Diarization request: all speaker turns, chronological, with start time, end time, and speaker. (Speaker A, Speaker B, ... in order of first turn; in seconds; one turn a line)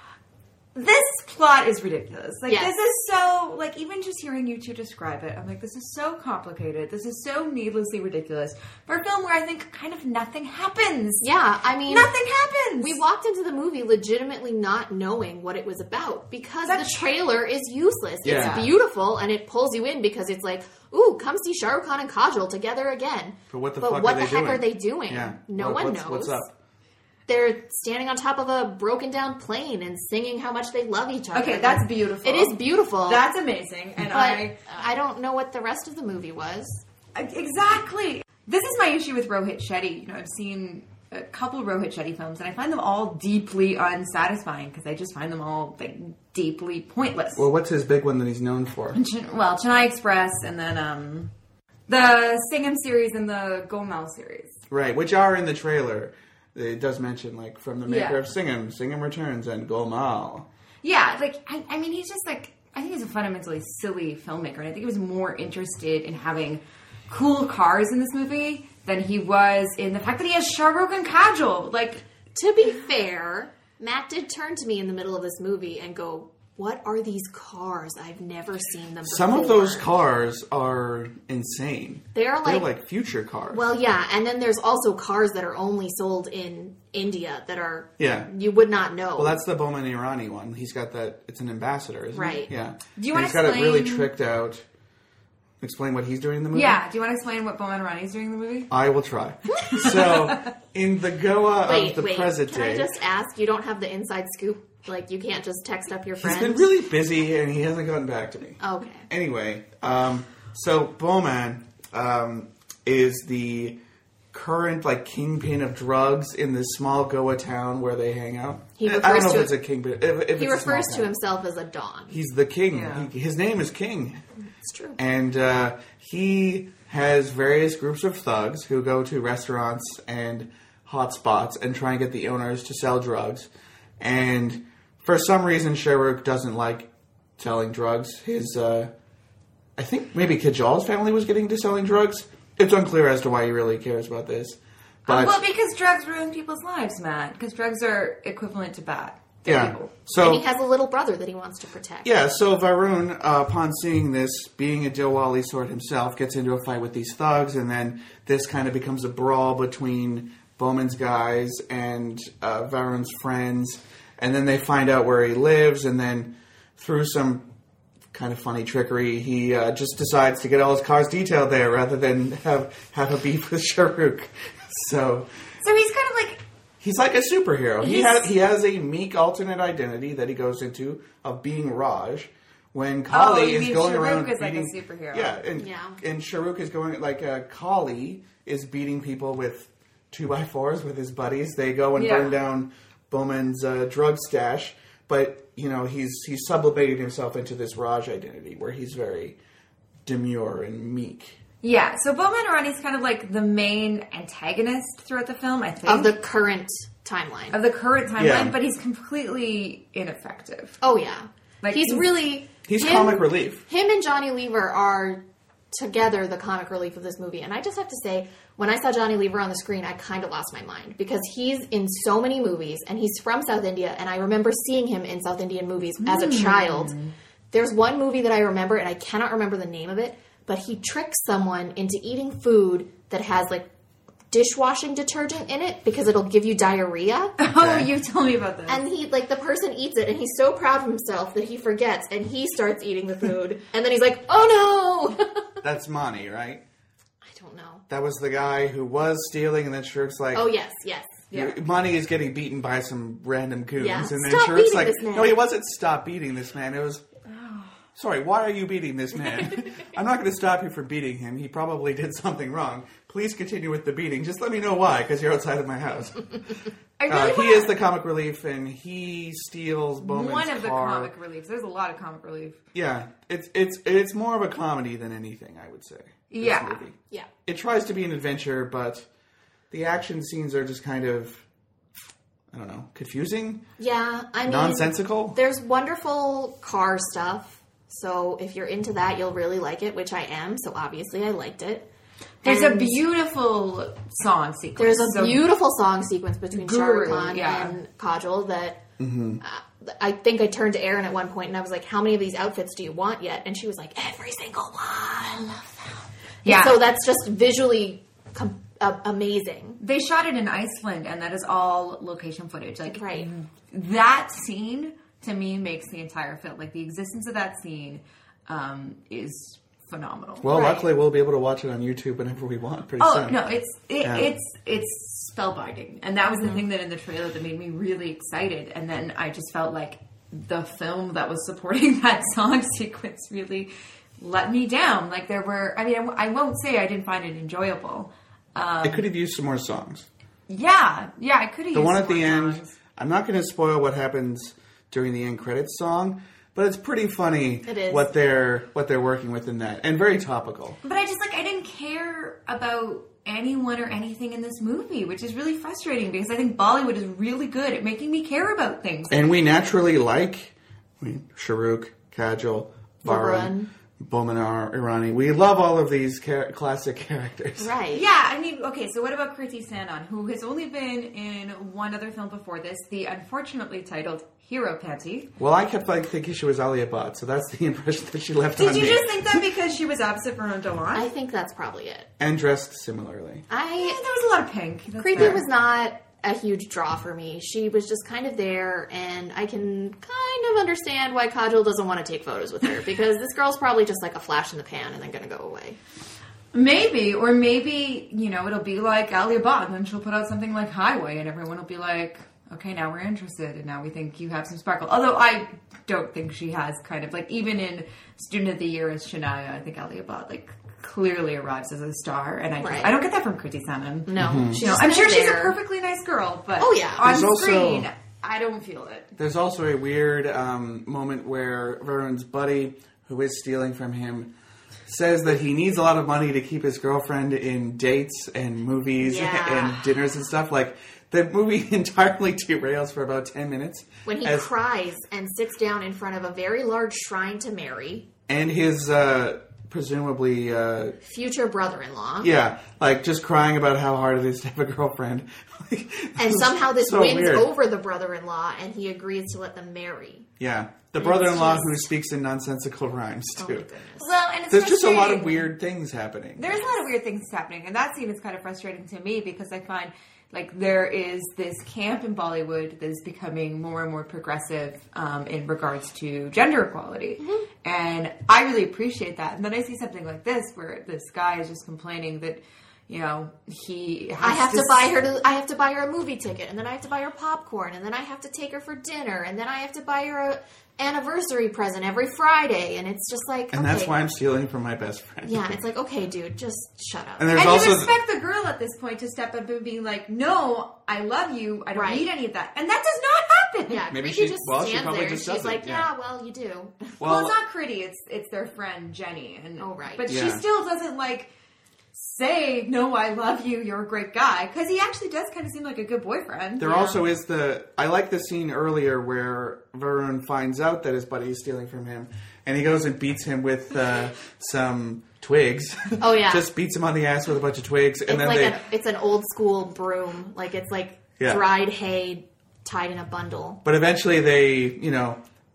Speaker A: 0.7-11.3
Speaker B: 11.2-12.1
Speaker A: 11.8-13.0
Speaker B: 12.8-26.4
Speaker A: 16.6-17.0
Speaker C: 18.2-18.7
Speaker A: 18.3-18.7
Speaker C: 23.5-26.5
Speaker B: 27.3-33.2
Speaker A: 31.3-34.6
Speaker B: 34.1-36.8
Speaker A: 37.1-47.5
Speaker C: 47.4-49.0
Speaker A: 48.9-51.3
Speaker A: 51.9-54.6
Speaker C: 54.7-60.5
Speaker A: 57.9-58.2
Speaker A: 60.8-72.0
Speaker B: 72.3-79.8
Speaker C: 79.0-83.6
Speaker B: 82.2-82.6
Speaker B: 83.5-89.4
Speaker C: 88.0-88.3
Speaker C: 89.2-94.6
Speaker B: 92.1-92.5
Speaker A: 93.0-94.1
Speaker C: 95.6-96.8
Speaker A: 96.5-98.7
Speaker C: 98.7-102.9
Speaker A: 99.7-100.4
Speaker B: 101.7-106.6
Speaker C: 106.2-113.8
Speaker B: 108.6-109.0
Speaker C: 114.3-121.2
Speaker B: 118.8-119.5
Speaker B: 120.4-122.1
Speaker C: 122.1-124.2
Speaker A: 122.7-123.1
Speaker B: 124.6-125.0
Speaker C: 125.0-133.5
Speaker C: 134.0-138.9
Speaker C: 139.8-145.4
Speaker A: 145.1-149.9
Speaker C: 149.4-150.4
Speaker B: 150.2-152.1
Speaker C: 152.0-167.5
Speaker C: 168.1-175.3
Speaker A: 175.6-176.4
Speaker C: 176.8-199.4
Speaker A: 177.8-178.3
Speaker A: 183.1-185.4
Speaker B: 185.6-186.0
Speaker A: 191.9-192.4
Speaker C: 200.0-201.4
Speaker A: 201.6-206.1
Speaker B: 205.8-207.5
Speaker A: 207.5-210.8
Speaker C: 208.2-208.5
Speaker B: 210.8-215.2
Speaker A: 211.6-212.0
Speaker C: 212.7-213.6
Speaker B: 215.7-226.9
Speaker A: 226.0-227.1
Speaker B: 227.5-233.7
Speaker B: 234.3-237.3
Speaker A: 237.4-238.8
Speaker C: 237.6-237.9
Speaker B: 238.7-245.2
Speaker C: 245.6-246.6
Speaker B: 247.3-247.8
Speaker C: 247.9-250.5
Speaker B: 250.3-251.2
Speaker A: 251.3-251.6
Speaker C: 251.3-257.0
Speaker B: 253.8-255.3
Speaker C: 257.9-271.1
Speaker A: 267.0-267.7
Speaker A: 270.0-272.6
Speaker C: 272.7-279.1
Speaker A: 276.3-276.8
Speaker C: 279.7-281.4
Speaker C: 282.5-283.6
Speaker B: 283.8-291.8
Speaker C: 284.4-285.4
Speaker A: 292.4-295.4
Speaker B: 292.4-293.0
Speaker B: 294.8-298.8
Speaker A: 296.5-297.8
Speaker C: 299.0-299.4
Speaker B: 299.4-305.9
Speaker A: 306.4-306.8
Speaker B: 306.4-309.8
Speaker A: 309.8-320.5
Speaker B: 312.9-313.2
Speaker C: 320.4-323.4
Speaker B: 320.5-320.8
Speaker A: 323.0-339.1
Speaker C: 324.0-324.3
Speaker C: 338.8-340.1
Speaker A: 340.5-342.7
Speaker C: 341.7-350.8
Speaker B: 347.7-348.0
Speaker A: 350.8-359.2
Speaker C: 359.1-367.7
Speaker B: 363.1-363.6
Speaker B: 367.6-368.0
Speaker A: 367.9-375.3
Speaker C: 375.4-379.4
Speaker A: 378.6-381.1
Speaker B: 380.9-382.1
Speaker C: 382.2-383.4
Speaker B: 383.5-384.0
Speaker A: 383.8-385.4
Speaker B: 385.0-395.8
Speaker A: 396.5-419.1
Speaker B: 412.6-412.9
Speaker B: 414.1-415.5
Speaker C: 414.1-414.6
Speaker B: 416.6-417.0
Speaker C: 417.0-417.9
Speaker C: 419.2-424.3
Speaker C: 424.9-434.5
Speaker B: 429.0-429.8
Speaker B: 434.1-438.1
Speaker C: 438.3-441.0
Speaker B: 441.1-442.3
Speaker C: 442.2-447.5
Speaker B: 446.2-450.2
Speaker C: 450.4-453.7
Speaker B: 451.0-451.6
Speaker B: 453.4-454.1
Speaker A: 454.0-455.5
Speaker C: 454.5-456.5
Speaker A: 456.4-474.9
Speaker B: 474.2-483.9
Speaker C: 483.5-485.5
Speaker B: 485.3-487.4
Speaker C: 487.2-487.9
Speaker A: 487.3-493.9
Speaker B: 491.7-492.0
Speaker B: 493.7-496.9
Speaker C: 493.9-495.9
Speaker C: 497.0-497.4
Speaker A: 497.0-501.3
Speaker B: 499.6-500.1
Speaker C: 500.1-500.4
Speaker A: 501.9-507.0
Speaker C: 506.6-518.6
Speaker B: 516.0-516.4
Speaker B: 518.1-523.6
Speaker C: 523.6-525.2